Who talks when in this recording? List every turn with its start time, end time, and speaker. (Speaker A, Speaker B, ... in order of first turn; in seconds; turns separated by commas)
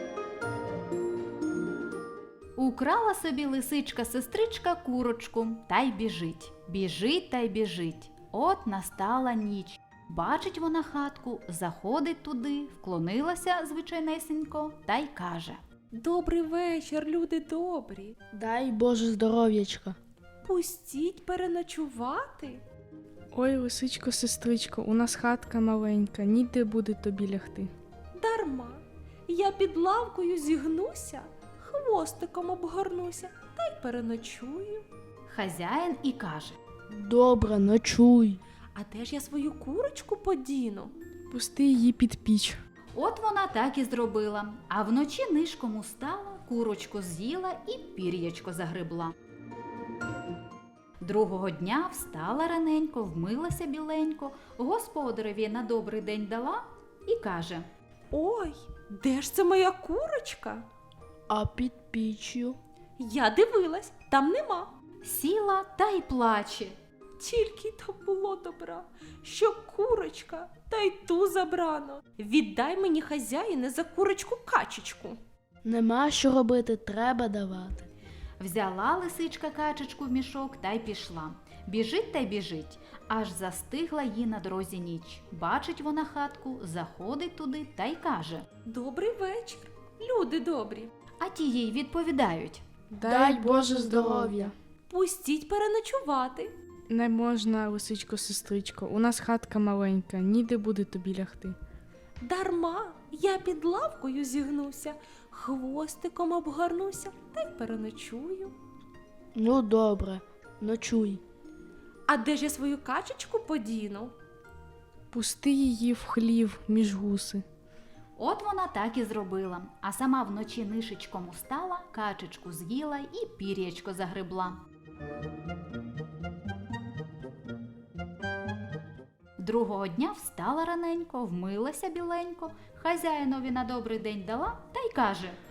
Speaker A: 2.6-15.6, Speaker B: 15.9-18.2, Speaker C: 18.3-20.0, Speaker B: 20.4-22.6, Speaker D: 23.3-27.7, Speaker B: 28.1-34.9, Speaker A: 35.3-36.6, Speaker C: 36.9-38.4, Speaker B: 38.8-40.9, Speaker D: 41.3-42.6, Speaker A: 43.0-49.1, Speaker A: 51.0-57.7, Speaker B: 58.1-60.7, Speaker C: 61.3-62.6, Speaker B: 63.0-64.7, Speaker A: 65.0-66.8, Speaker B: 67.2-75.2, Speaker C: 75.6-77.9, Speaker A: 78.4-88.5, Speaker B: 88.7-90.9, Speaker A: 91.2-92.6, Speaker D: 92.9-94.5, Speaker C: 93.0-94.5, Speaker B: 94.9-96.5, Speaker D: 96.9-101.6, Speaker B: 102.2-108.5, Speaker C: 109.3-111.2, Speaker B: 112.1-114.2, Speaker D: 115.1-117.4, Speaker A: 118.2-124.6, Speaker A: 129.4-135.4